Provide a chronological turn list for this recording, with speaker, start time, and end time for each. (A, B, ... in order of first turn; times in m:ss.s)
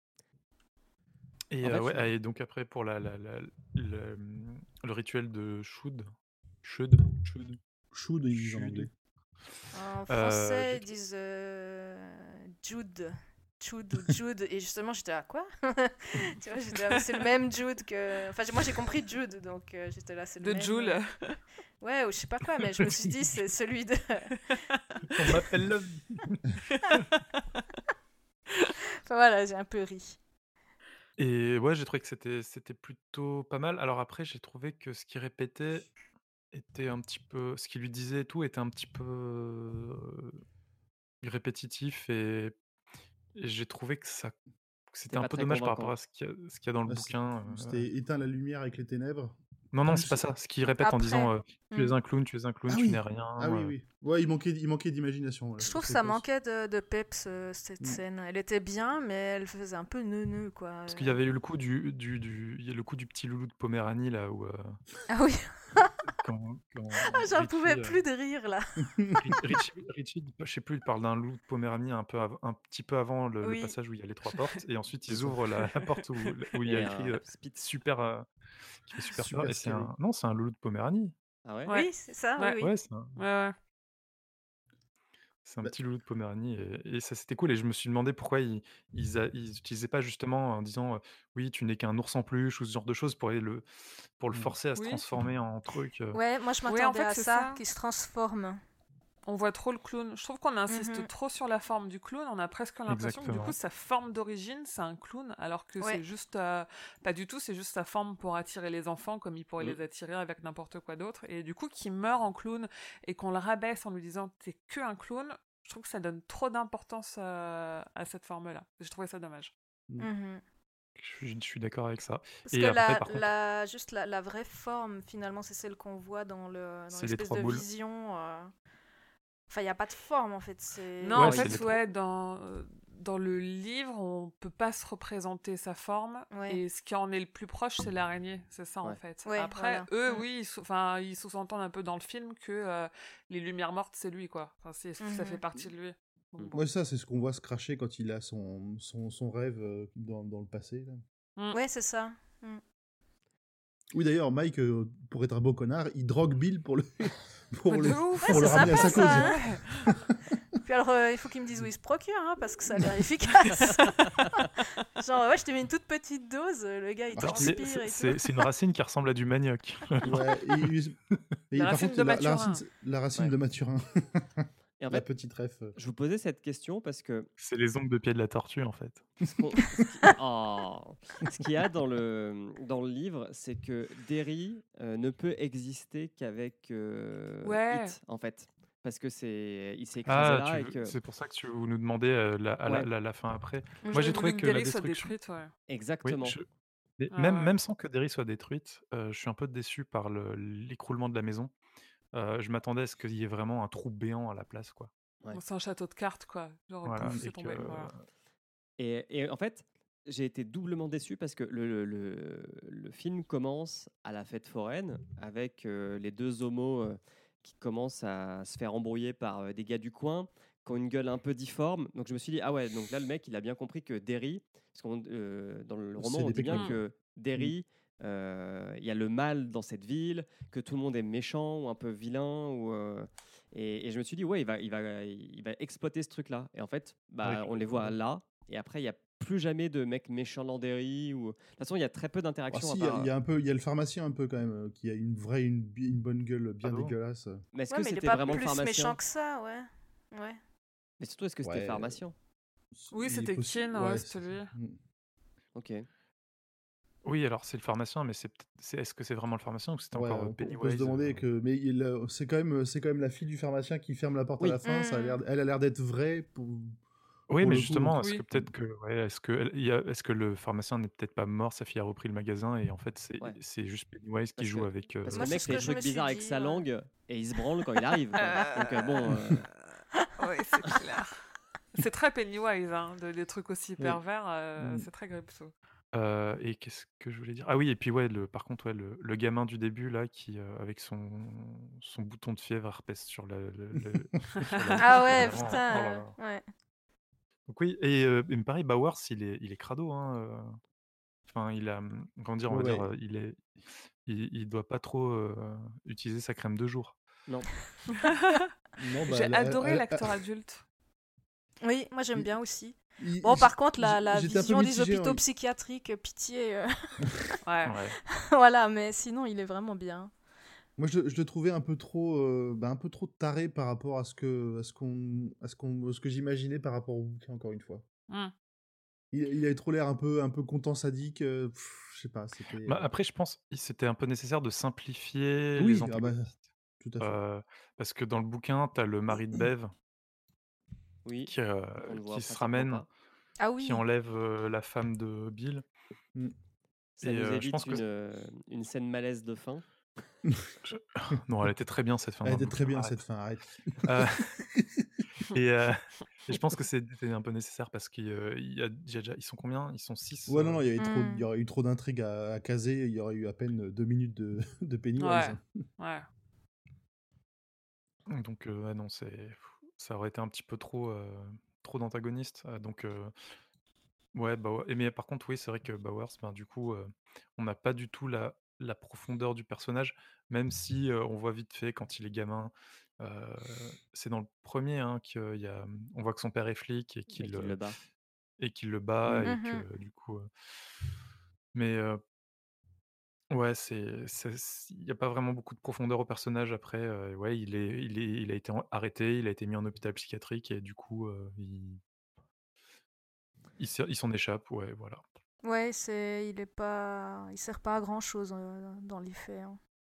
0:01.5-0:06.1 A
0:01.6-0:02.1 B
0:06.6-0:07.6 A
0:07.9-0:08.9 C
0:08.3-0:08.9 A
0:09.7-0:21.0 D
0:10.1-0:10.8 A
0:20.4-0:21.4 E
0:21.8-0:24.6 D
0:22.8-0:23.3 A
0:24.5-0:25.4 E
0:25.2-0:27.0 A
0:26.7-0:27.2 E
0:29.0-0:30.2 D
0:31.2-0:35.9 A
0:36.5-0:40.4 A
0:41.2-0:42.6 A
0:43.3-0:44.3 A
0:44.9-0:47.9 A
0:45.1-0:45.9 B
0:46.8-0:50.2 C
0:49.7-0:53.7 A
0:50.8-0:52.0 D
0:52.7-0:56.2 C
0:55.6-1:01.2 D
1:00.9-1:04.8 A
1:05.1-1:06.0 D
1:06.2-1:08.0 A
1:07.0-1:09.1 D
1:08.8-1:09.3 C
1:09.1-1:18.3 A
1:13.4-1:13.7 D
1:15.6-1:15.9 E
1:16.6-1:17.6 B
1:18.8-1:21.1 A
1:19.2-1:19.9 C
1:21.4-1:21.7 B
1:21.6-1:22.6 E
1:21.7-1:22.7 D
1:22.6-1:23.2 A
1:23.2-1:23.6 E
1:25.4-1:33.6 A
1:34.2-1:36.2 A
1:34.8-1:35.0 E
1:36.1-1:38.6 D
1:36.6-1:37.6 E
1:39.2-1:59.5 E
1:40.7-1:41.1 D
1:42.9-1:43.6 A
2:00.0-2:00.4 D
2:01.0-2:03.3 A
2:02.4-2:08.5 D
2:06.9-2:07.6 A
2:09.5-2:11.2 D
2:11.0-2:26.6 E
2:11.1-2:11.8 A
2:11.2-2:11.6 B
2:16.3-2:16.6 D
2:19.2-2:20.2 D
2:25.0-2:25.4 D
2:26.5-2:31.0 C
2:31.5-2:32.6 D
2:33.9-2:40.0 C
2:37.7-2:39.9 E
2:38.2-2:39.4 D
2:40.6-2:44.4 D
2:43.5-2:43.9 E
2:45.0-2:48.3 D
2:47.2-2:50.7 A
2:47.3-2:47.6 C
2:50.0-2:51.0 C
2:51.5-2:55.7 C
2:51.5-2:52.6 E
2:54.8-2:55.0 B
2:55.7-2:57.3 B
2:57.4-2:59.1 A
2:59.2-3:11.0 B
3:07.4-3:08.0 E
3:10.0-3:15.1 A
3:13.8-3:14.3 D
3:13.9-3:15.5 E
3:15.7-3:16.4 B
3:16.0-3:16.4 A
3:17.0-3:21.5 A
3:17.1-3:17.5 E
3:22.1-3:24.9 A
3:25.3-3:27.9 E
3:26.8-3:28.0 A
3:27.0-3:27.7 C
3:28.8-4:03.1 B
3:46.0-3:46.8 C
3:46.5-3:46.8 E
3:57.2-3:57.8 A
4:02.5-4:07.4 C
4:06.6-4:06.9 A
4:07.5-4:09.0 B
4:07.7-4:10.4 D
4:11.0-4:12.1 B
4:11.4-4:12.0 C
4:12.7-4:14.8 C
4:12.9-4:14.5 E
4:15.6-4:15.9 B
4:17.0-4:21.2 A
4:19.9-4:26.8 C
4:24.6-4:25.2 D
4:27.3-4:35.6 A
4:27.4-4:28.5 C
4:34.4-4:39.5 B
4:35.0-4:36.6 D
4:38.2-4:39.1 E
4:39.7-4:45.5 E
4:44.6-4:44.9 C
4:45.9-4:56.2 A
4:54.5-4:55.4 E
4:54.8-4:56.4 D
4:57.5-5:00.6 A
5:01.3-5:03.4 A
5:02.5-5:02.9 C
5:04.0-5:07.0 A
5:07.9-5:08.5 E
5:08.8-5:10.2 C
5:09.1-5:10.6 E
5:11.6-5:17.2 D
5:13.0-5:15.2 C
5:17.4-5:17.8 E
5:17.6-5:18.0 A
5:18.2-5:20.1 D
5:20.8-5:27.8 C
5:29.1-5:32.8 C
5:32.6-5:36.2 A
5:35.6-5:37.2 C
5:37.0-5:39.7 A
5:41.0-5:42.8 B
5:41.3-5:42.8 A
5:43.4-5:43.8 D
5:43.6-5:45.6 A
5:47.0-5:49.6 B
5:47.0-5:47.8 A
5:50.6-5:53.0 A
5:52.2-5:55.0 C
5:53.8-5:54.4 A
5:55.3-6:00.6 A
6:00.3-6:05.4 C
6:00.8-6:01.2 D
6:05.0-6:06.0 E
6:08.1-6:13.1 A
6:14.1-6:27.6 A
6:27.1-6:27.8 B
6:28.4-6:30.3 A
6:29.2-6:29.6 D
6:31.5-6:32.0 A
6:33.3-6:41.8 A
6:43.6-6:45.0 A
6:45.4-6:49.6 D